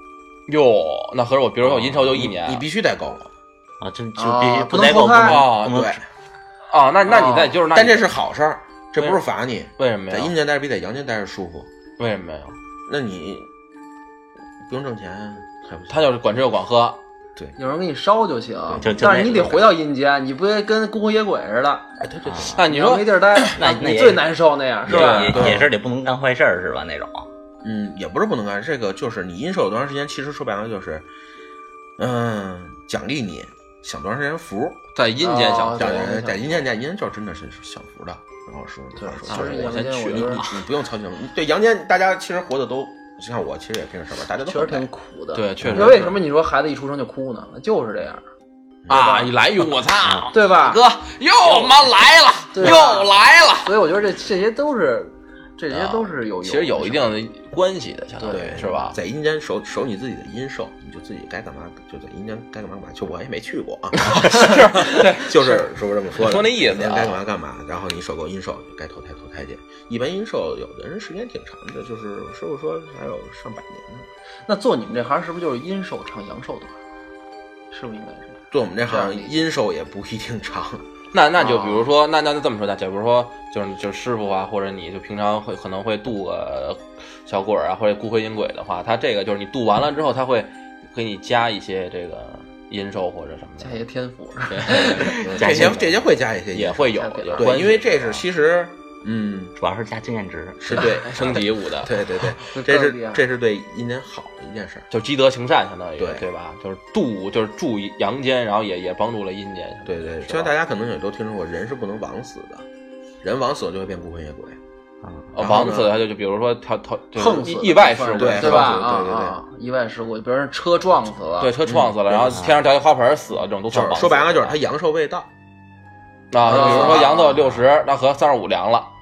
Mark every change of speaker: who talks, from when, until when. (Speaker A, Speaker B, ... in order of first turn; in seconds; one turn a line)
Speaker A: 0.5-2.6
Speaker B: 1.7-3.3
Speaker C: 3.8-6.0
Speaker D: 4.2-5.5
Speaker A: 5.2-5.9
Speaker B: 5.7-6.0
Speaker A: 6.7-8.1
Speaker D: 7.1-7.5
Speaker B: 7.7-11.7
Speaker A: 9.8-10.3
Speaker A: 12.0-12.6
Speaker B: 12.9-13.5
Speaker B: 14.7-16.1
Speaker A: 15.9-17.0
Speaker D: 17.6-21.9
Speaker B: 18.7-19.0
Speaker C: 18.8-19.7
Speaker B: 22.0-22.6
Speaker C: 22.2-22.6
Speaker A: 22.5-23.6
Speaker D: 22.6-25.6
Speaker C: 23.6-24.3
Speaker C: 24.9-27.3
Speaker A: 24.9-25.6
Speaker B: 25.3-25.7
Speaker B: 27.6-31.1
Speaker B: 32.0-34.8
Speaker A: 35.0-36.1
Speaker D: 35.2-36.6
Speaker B: 35.8-44.9
Speaker D: 39.0-40.5
Speaker A: 39.3-40.6
Speaker D: 44.4-48.2
Speaker A: 45.3-46.2
Speaker C: 45.6-45.9
Speaker B: 48.9-49.1
Speaker A: 48.9-53.7
Speaker D: 48.9-49.3
Speaker C: 50.0-50.3
Speaker D: 50.3-50.8
Speaker D: 52.5-57.2
Speaker A: 55.7-59.0
Speaker D: 58.2-58.7
Speaker B: 58.3-74.1
Speaker A: 64.0-65.6
Speaker A: 66.2-67.2
Speaker D: 74.5-76.8
Speaker D: 77.7-79.3
Speaker B: 78.5-80.8
Speaker A: 81.1-93.8
Speaker D: 81.4-81.9
Speaker D: 93.6-95.3
Speaker A: 94.5-95.8
Speaker B: 94.7-99.5
Speaker C: 95.3-95.9
Speaker A: 96.5-98.2
Speaker D: 96.9-97.5
Speaker C: 99.6-100.9
Speaker B: 100.6-104.9
Speaker A: 100.8-101.9
Speaker D: 102.5-103.2
Speaker A: 104.9-110.5
Speaker B: 106.0-106.3
Speaker B: 109.9-112.7
Speaker B: 113.2-114.6
Speaker C: 115.0-115.3
Speaker A: 115.3-118.8
Speaker B: 115.4-116.0
Speaker D: 117.2-121.5
Speaker B: 118.2-119.4
Speaker A: 121.4-124.6
Speaker B: 121.7-122.5
Speaker C: 122.3-122.6
Speaker B: 123.7-125.3
Speaker A: 126.3-128.9
Speaker B: 126.4-127.2
Speaker D: 126.5-127.5